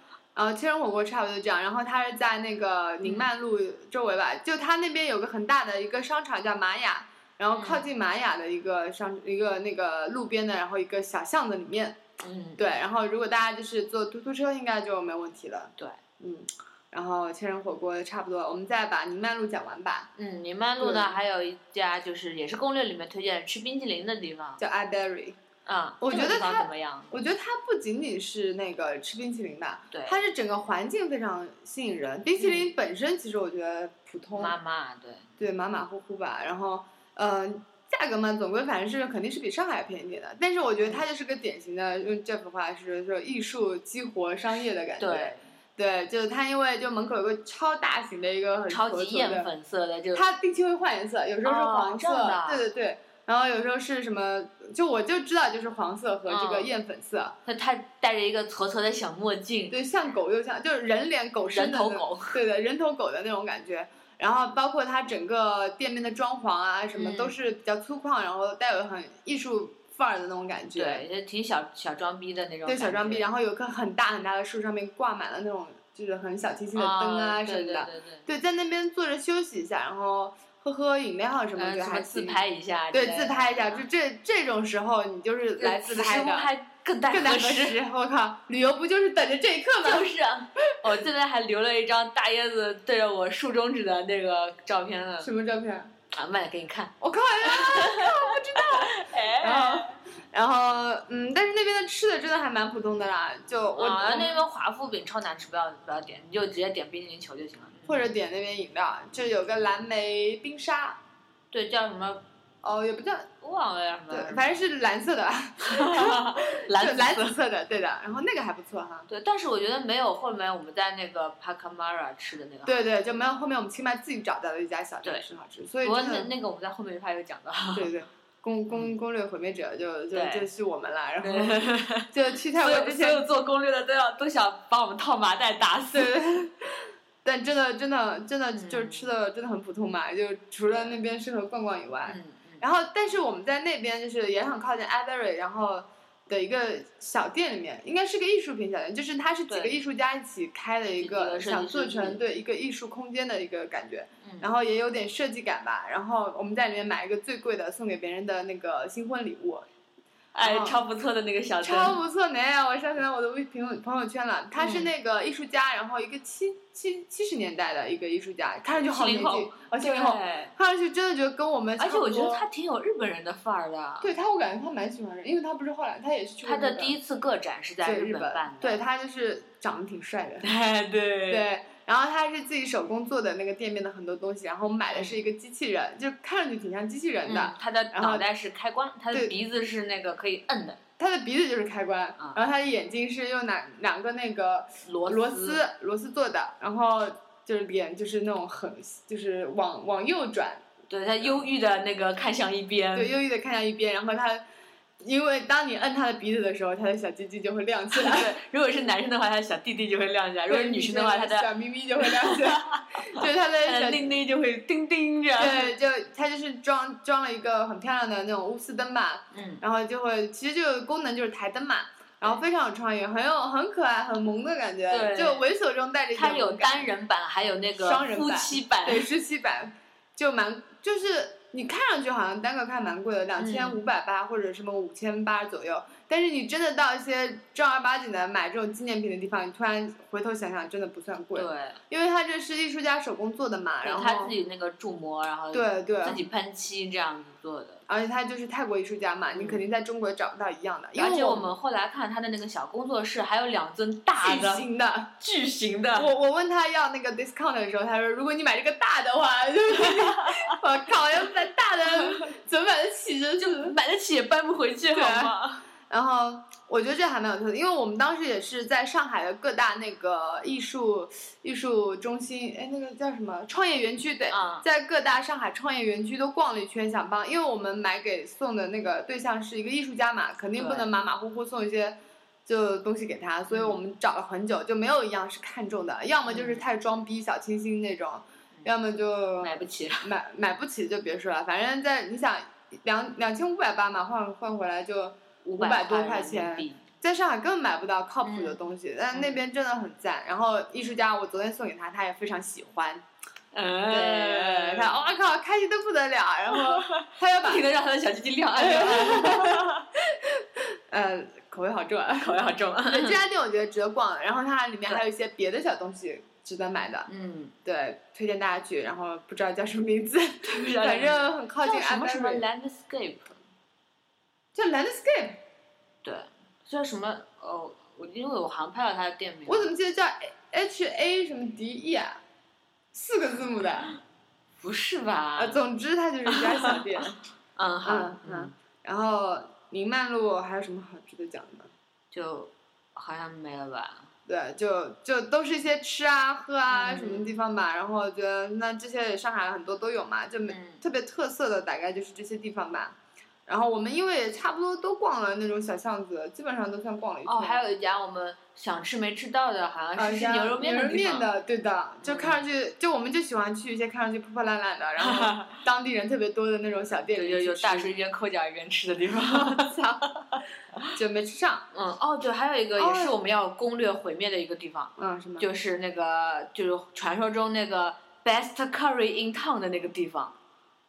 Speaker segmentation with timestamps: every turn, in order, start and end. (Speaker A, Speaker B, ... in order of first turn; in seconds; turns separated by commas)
Speaker A: 0.3-12.0, Speaker B: 3.0-3.3, Speaker B: 7.5-7.8, Speaker B: 12.2-12.6, Speaker A: 12.6-20.1, Speaker B: 20.2-24.6, Speaker A: 20.8-21.2, Speaker A: 24.6-25.4, Speaker B: 25.7-27.1, Speaker A: 26.0-34.5, Speaker B: 29.9-30.2, Speaker B: 32.4-32.7, Speaker B: 34.4-35.4, Speaker A: 35.4-49.5, Speaker B: 45.0-45.4, Speaker B: 48.7-50.3, Speaker A: 50.1-57.4, Speaker B: 51.4-52.7, Speaker B: 56.3-56.7, Speaker B: 57.5-59.8, Speaker A: 59.7-71.0, Speaker B: 61.5-62.4, Speaker B: 67.0-67.3, Speaker B: 70.8-73.3, Speaker A: 72.7-82.4, Speaker B: 76.8-78.3, Speaker B: 81.6-83.8, Speaker A: 82.9-86.5, Speaker B: 85.6-87.8, Speaker A: 87.1-90.1, Speaker B: 89.8-95.3, Speaker A: 95.2-95.9, Speaker B: 96.1-100.0, Speaker A: 97.0-104.4, Speaker B: 103.8-108.1, Speaker A: 107.9-111.0, Speaker B: 111.5-112.2, Speaker A: 112.6-113.3, Speaker B: 113.4-114.4, Speaker A: 114.1-119.1, Speaker B: 115.6-117.4, Speaker B: 119.1-122.8, Speaker A: 122.7-126.3, Speaker B: 125.8-127.9, Speaker A: 127.8-133.3, Speaker B: 130.1-130.5, Speaker B: 131.2-136.1, Speaker A: 135.9-136.6, Speaker A: 137.2-159.7, Speaker B: 138.5-139.1, Speaker B: 140.7-141.0, Speaker B: 142.1-142.6, Speaker B: 149.5-149.8, Speaker B: 151.0-152.2, Speaker B: 154.2-154.5, Speaker B: 160.3-162.0, Speaker A: 160.4-160.8, Speaker A: 161.6-172.4, Speaker B: 164.6-164.9, Speaker B: 168.8-170.5, Speaker B: 171.8-174.2, Speaker A: 174.0-177.0, Speaker B: 176.4-178.8, Speaker A: 177.8-180.5, Speaker B: 180.4-181.5, Speaker A: 181.3-188.2, Speaker B: 184.9-185.2, Speaker B: 187.2-190.8, Speaker A: 191.0-200.7, Speaker B: 194.8-195.6, Speaker B: 200.9-203.1, Speaker A: 202.9-204.4, Speaker A: 205.0-208.3, Speaker B: 207.9-211.5, Speaker A: 210.5-214.2, Speaker B: 212.1-215.7, Speaker A: 215.4-226.9, Speaker B: 219.3-219.6, Speaker B: 224.9-225.5, Speaker B: 226.1-229.1, Speaker A: 227.8-244.4, Speaker B: 233.4-233.8, Speaker B: 241.3-241.8, Speaker B: 243.8-247.8, Speaker A: 245.5-246.2, Speaker A: 247.9-251.5, Speaker B: 249.3-249.6, Speaker B: 251.0-254.7, Speaker A: 254.2-255.1, Speaker B: 255.2-256.1, Speaker A: 255.9-263.8, Speaker B: 259.8-260.6, Speaker B: 263.4-265.7, Speaker A: 264.9-303.1, Speaker B: 274.3-274.6, Speaker B: 280.6-280.9, Speaker B: 283.5-283.8, Speaker B: 286.3-286.6, Speaker B: 289.4-290.1, Speaker B: 295.4-296.8, Speaker B: 298.2-298.6, Speaker B: 299.1-299.4, Speaker B: 303.5-305.0, Speaker A: 303.9-307.7, Speaker B: 306.6-309.8, Speaker A: 308.6-317.1, Speaker B: 312.2-313.2, Speaker B: 317.1-317.5, Speaker A: 317.6-322.4, Speaker B: 320.4-323.4, Speaker A: 324.5-325.4, Speaker B: 326.0-329.7, Speaker A: 329.5-332.2, Speaker A: 332.9-333.9, Speaker B: 334.6-335.6, Speaker A: 335.4-337.2, Speaker B: 336.3-336.8, Speaker B: 337.6-338.5, Speaker A: 337.8-341.7, Speaker B: 342.1-344.1, Speaker A: 344.3-357.6, Speaker B: 346.7-347.4, Speaker B: 350.5-350.8, Speaker B: 357.2-361.3, Speaker A: 360.0-367.9, Speaker B: 362.0-362.4, Speaker B: 365.0-365.6, Speaker B: 367.1-369.7, Speaker A: 369.3-370.0, Speaker B: 370.3-370.9, Speaker A: 370.9-371.7, Speaker B: 371.7-380.4, Speaker A: 372.8-373.2, Speaker A: 375.0-375.5